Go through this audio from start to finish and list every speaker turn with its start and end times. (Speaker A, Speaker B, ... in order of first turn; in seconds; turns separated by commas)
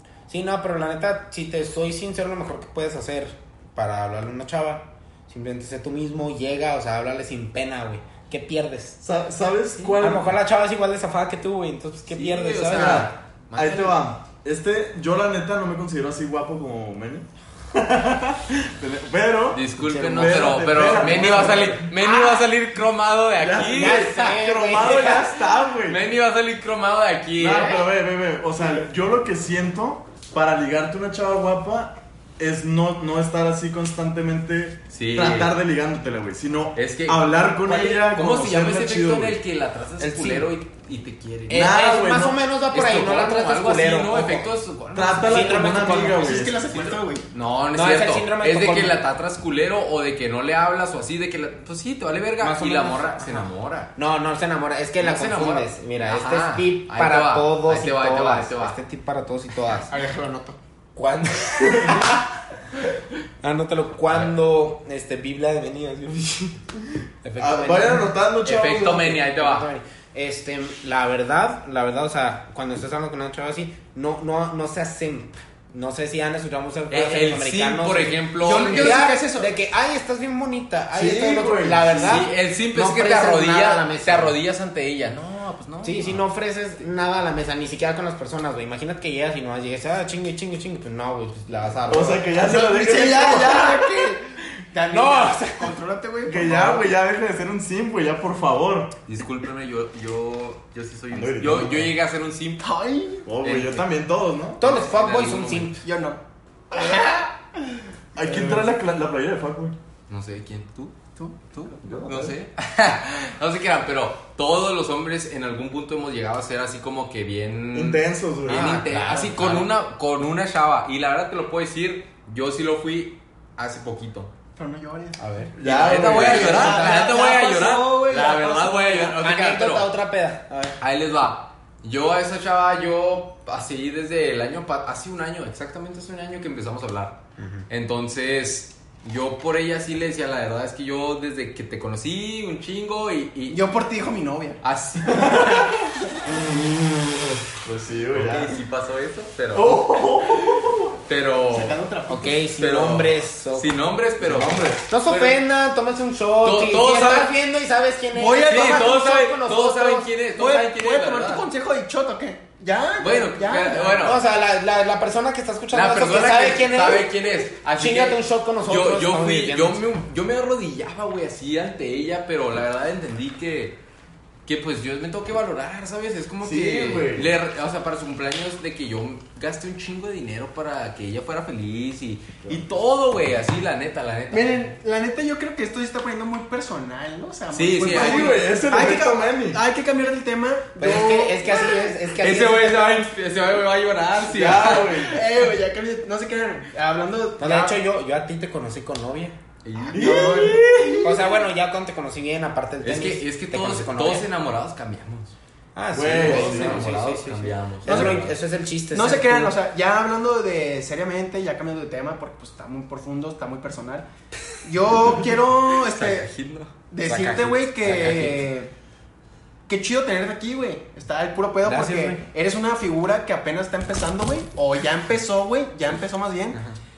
Speaker A: 0.3-9.0, Speaker B: 9.0-10.4, Speaker A: 10.0-13.1, Speaker C: 12.1-14.0, Speaker B: 12.7-21.9, Speaker C: 19.5-24.3, Speaker B: 23.4-26.0, Speaker A: 23.7-25.4, Speaker C: 24.8-25.3, Speaker C: 25.9-27.8, Speaker B: 27.4-39.4, Speaker C: 34.9-35.5, Speaker C: 36.8-41.7, Speaker A: 40.0-40.5, Speaker A: 41.5-44.5, Speaker B: 41.5-42.4, Speaker C: 42.7-45.6, Speaker B: 44.9-46.7, Speaker A: 45.2-46.3, Speaker D: 46.1-47.2, Speaker C: 47.3-53.9, Speaker A: 47.7-49.0, Speaker A: 52.4-60.4, Speaker C: 55.0-58.8, Speaker D: 59.9-60.5, Speaker A: 61.0-62.3, Speaker B: 61.7-62.0, Speaker A: 63.4-68.1, Speaker B: 67.4-69.1, Speaker C: 68.4-69.7, Speaker A: 68.7-84.4, Speaker C: 76.9-79.0, Speaker D: 78.4-79.5, Speaker B: 80.9-82.3, Speaker C: 82.0-86.2, Speaker A: 85.8-92.3, Speaker B: 91.9-93.8, Speaker D: 92.3-96.8, Speaker A: 94.9-95.7, Speaker B: 96.3-98.9, Speaker C: 99.1-102.6, Speaker B: 101.1-102.0, Speaker D: 102.6-103.3, Speaker B: 103.3-104.6, Speaker C: 103.4-103.9, Speaker A: 104.6-105.8, Speaker C: 104.6-105.8, Speaker D: 105.8-106.2, Speaker D: 106.7-108.7, Speaker B: 108.2-109.8, Speaker C: 110.1-111.0, Speaker C: 111.5-124.3, Speaker B: 111.8-112.3, Speaker B: 117.7-118.8, Speaker A: 118.5-119.7, Speaker D: 124.6-125.2, Speaker C: 125.3-129.9, Speaker B: 125.6-127.0, Speaker D: 126.0-129.1, Speaker A: 126.2-127.0, Speaker A: 129.2-130.8, Speaker C: 130.8-143.6, Speaker A: 137.4-137.7, Speaker D: 143.5-144.6, Speaker C: 144.6-145.6, Speaker B: 145.1-148.6, Speaker C: 148.1-151.8, Speaker B: 149.5-151.0, Speaker D: 151.5-152.4, Speaker A: 152.1-153.7, Speaker C: 152.5-155.4, Speaker B: 154.2-154.8, Speaker A: 154.9-160.1, Speaker C: 156.4-157.3, Speaker D: 158.1-159.0, Speaker C: 158.4-161.5, Speaker D: 160.3-164.1, Speaker C: 163.0-164.2, Speaker A: 164.0-169.8, Speaker C: 165.7-173.8, Speaker C: 174.5-184.8, Speaker B: 176.4-177.3, Speaker D: 184.3-191.9, Speaker C: 187.5-188.4, Speaker B: 187.8-189.6, Speaker A: 190.8-193.1, Speaker C: 192.2-195.3, Speaker B: 194.2-195.2, Speaker D: 195.1-197.8, Speaker A: 197.4-199.4, Speaker C: 199.7-200.9, Speaker D: 199.8-201.4, Speaker B: 199.9-201.1, Speaker A: 200.2-200.5, Speaker A: 201.0-204.3, Speaker C: 202.8-205.3, Speaker A: 205.8-209.6, Speaker B: 205.9-206.8, Speaker C: 206.0-208.3, Speaker D: 207.9-208.2, Speaker B: 207.9-208.2, Speaker D: 208.9-214.1, Speaker D: 214.6-216.3, Speaker C: 215.7-216.7, Speaker D: 216.9-218.7, Speaker A: 217.0-218.5, Speaker D: 219.7-226.6, Speaker A: 221.6-222.2